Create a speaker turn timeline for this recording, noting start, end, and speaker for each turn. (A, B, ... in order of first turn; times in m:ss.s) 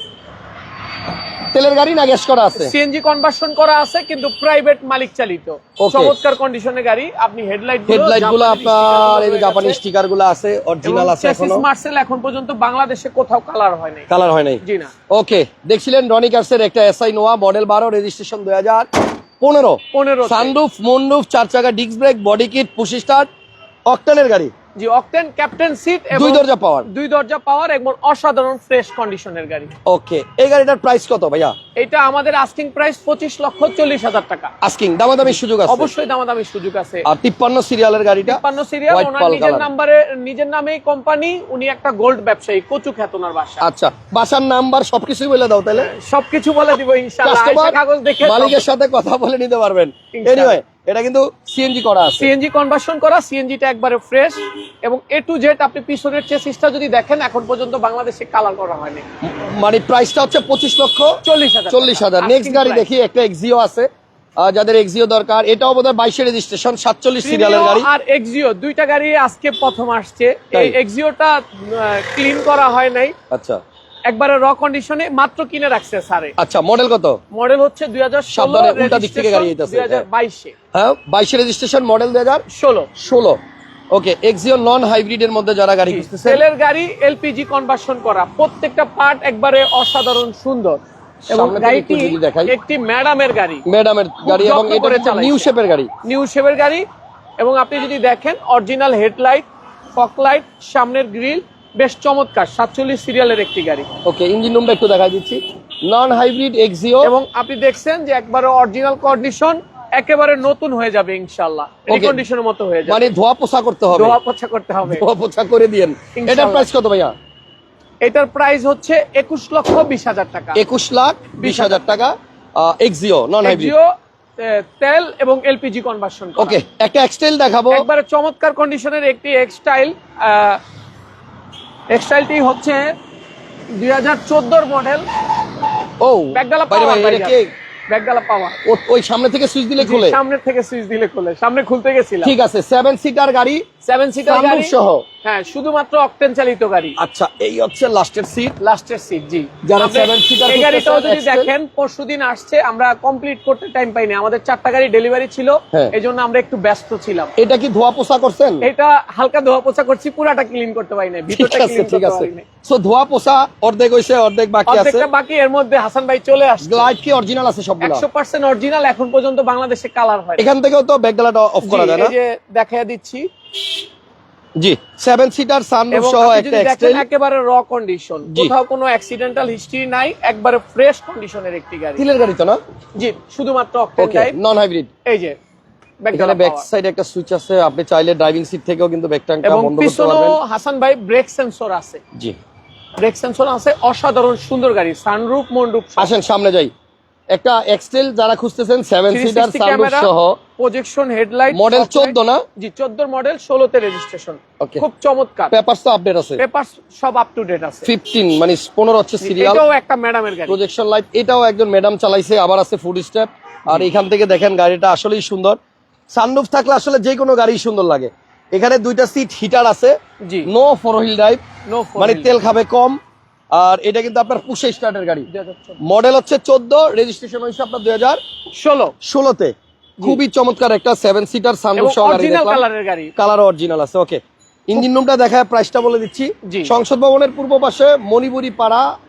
0:01.5-0:02.7 A
0:02.5-0:09.8 B
0:05.8-0:06.1 A
0:07.9-0:11.6 A
0:10.8-0:14.1 B
0:14.1-0:18.9 A
0:14.6-0:14.9 B
0:19.4-0:23.3 A
0:19.9-0:20.6 B
0:23.9-0:24.5 A
0:24.8-0:29.7 B
0:26.1-0:26.9 A
0:29.8-0:31.5 A
0:31.8-0:34.5 B
0:34.6-0:35.9 A
0:35.2-0:37.0 B
0:37.0-0:39.7 A
0:38.2-0:43.6 B
0:43.6-0:45.9 A
0:45.7-0:48.6 B
0:47.2-0:52.3 A
0:50.1-0:50.6 B
0:52.2-0:59.0 B
0:59.2-1:01.2 A
1:01.2-1:02.9 B
1:01.7-1:07.9 A
1:07.2-1:13.1 B
1:13.3-1:13.6 A
1:14.1-1:16.3 B
1:16.4-1:17.2 A
1:17.3-1:20.5 B
1:18.3-1:20.0 A
1:20.7-1:22.4 A
1:22.5-1:22.9 B
1:23.0-1:23.4 A
1:23.9-1:26.4 A
1:25.8-1:33.6 B
1:31.3-1:32.5 A
1:33.6-1:35.9 A
1:34.2-1:35.5 B
1:36.0-1:36.8 B
1:37.4-1:43.9 B
1:44.0-1:47.1 A
1:47.0-1:53.1 B
1:51.9-1:52.2 A
1:52.8-1:54.2 A
1:53.9-1:55.0 B
1:54.8-1:57.1 A
1:56.1-1:56.7 B
1:58.0-2:00.6 B
2:00.6-2:03.7 A
2:01.4-2:01.9 B
2:03.4-2:06.6 B
2:06.4-2:07.9 A
2:07.7-2:10.6 B
2:11.9-2:12.9 B
2:13.7-2:15.0 B
2:16.0-2:17.5 A
2:16.3-2:18.6 B
2:18.6-2:20.2 A
2:19.8-2:22.3 B
2:22.2-2:23.6 A
2:23.8-2:27.0 B
2:24.2-2:25.0 A
2:27.0-2:28.6 A
2:28.6-2:37.3 B
2:29.6-2:31.5 A
2:37.4-2:38.7 A
2:38.6-2:42.4 B
2:41.3-2:45.1 A
2:44.7-2:46.9 B
2:46.6-2:48.0 A
2:47.8-2:50.5 B
2:50.4-2:52.1 A
2:51.6-2:53.3 B
2:54.6-2:57.0 A
2:55.9-3:02.0 B
2:58.2-2:58.5 A
3:02.0-3:02.6 A
3:03.0-3:04.4 B
3:04.0-3:04.9 A
3:05.0-3:05.4 B
3:06.0-3:06.7 B
3:06.1-3:10.4 A
3:09.4-3:12.0 B
3:13.0-3:16.1 B
3:16.0-3:16.7 A
3:17.3-3:20.4 A
3:19.1-3:25.5 B
3:21.5-3:22.4 A
3:25.5-3:26.4 A
3:26.4-3:27.9 B
3:27.8-3:29.6 A
3:29.2-3:30.6 B
3:30.5-3:35.6 A
3:36.1-3:41.4 A
3:40.2-3:40.5 B
3:41.6-3:42.4 B
3:42.0-3:43.0 A
3:43.5-3:45.3 A
3:45.3-3:45.8 B
3:45.8-3:48.2 A
3:48.6-3:48.9 B
3:49.0-3:52.6 A
3:51.8-3:53.1 B
3:53.2-3:58.9 A
3:56.4-3:56.7 B